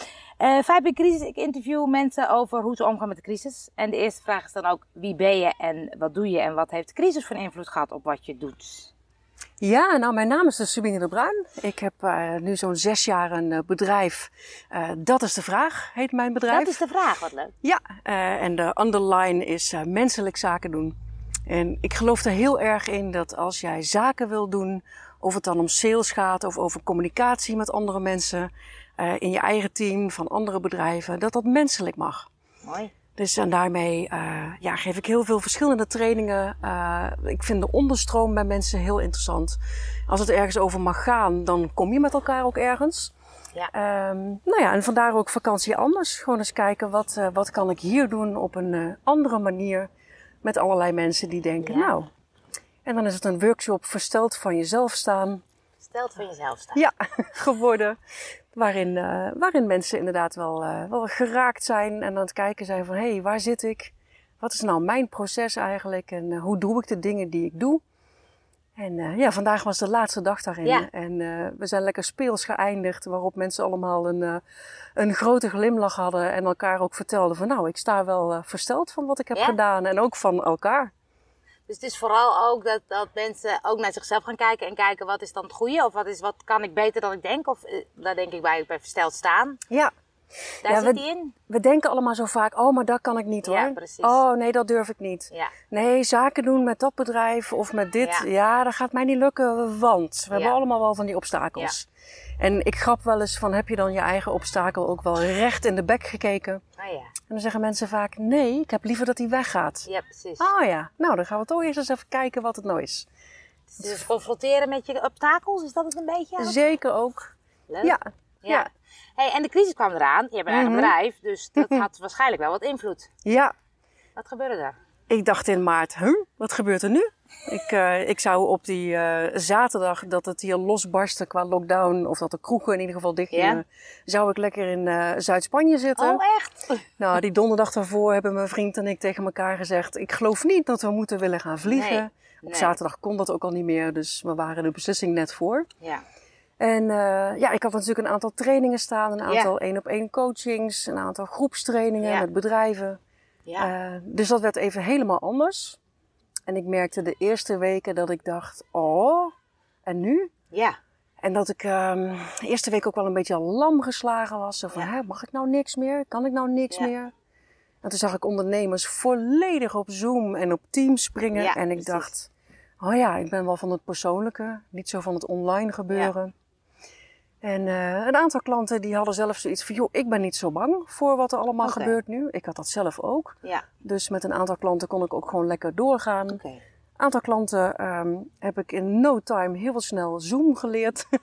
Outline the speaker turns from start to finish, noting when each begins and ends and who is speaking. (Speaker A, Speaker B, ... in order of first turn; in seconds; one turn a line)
Speaker A: 0.4-8.9
Speaker B: 9.6-16.8
Speaker A: 16.5-17.5
Speaker B: 17.6-20.9
Speaker B: 21.5-32.3
Speaker A: 32.6-32.9
Speaker B: 33.1-43.1
Speaker B: 43.7-49.9
Speaker B: 50.4-52.1
Speaker A: 51.6-51.9
Speaker B: 52.8-55.4
Speaker A: 55.8-56.8
Speaker B: 56.7-58.0
Speaker B: 58.5-67.8
Speaker B: 68.8-74.4
Speaker B: 75.0-80.9
Speaker A: 81.7-89.6
Speaker A: 90.6-91.3
Speaker B: 90.6-101.9
Speaker A: 93.4-94.2
Speaker A: 98.0-98.3
Speaker A: 100.3-100.6
Speaker B: 102.4-106.6
Speaker A: 106.8-107.1
Speaker B: 107.3-109.9
Speaker A: 109.9-110.5
Speaker B: 110.4-113.1
Speaker A: 113.7-116.5
Speaker B: 116.4-118.7
Speaker A: 117.7-123.1
Speaker B: 120.5-120.9
Speaker B: 123.2-123.5
Speaker A: 124.2-124.7
Speaker B: 125.1-136.2
Speaker A: 133.3-133.6
Speaker A: 136.0-136.8
Speaker B: 137.0-145.7
Speaker A: 141.7-142.8
Speaker B: 146.6-153.0
Speaker A: 149.2-149.5
Speaker A: 152.0-152.2
Speaker A: 153.4-153.7
Speaker B: 153.6-155.8
Speaker B: 156.5-159.3
Speaker B: 159.8-160.3
Speaker A: 160.5-160.8
Speaker B: 161.2-167.1
Speaker B: 167.8-172.3
Speaker A: 171.3-172.1
Speaker B: 172.8-176.3
Speaker B: 177.4-186.4
Speaker A: 181.6-181.9
Speaker A: 186.3-186.6
Speaker B: 187.0-191.0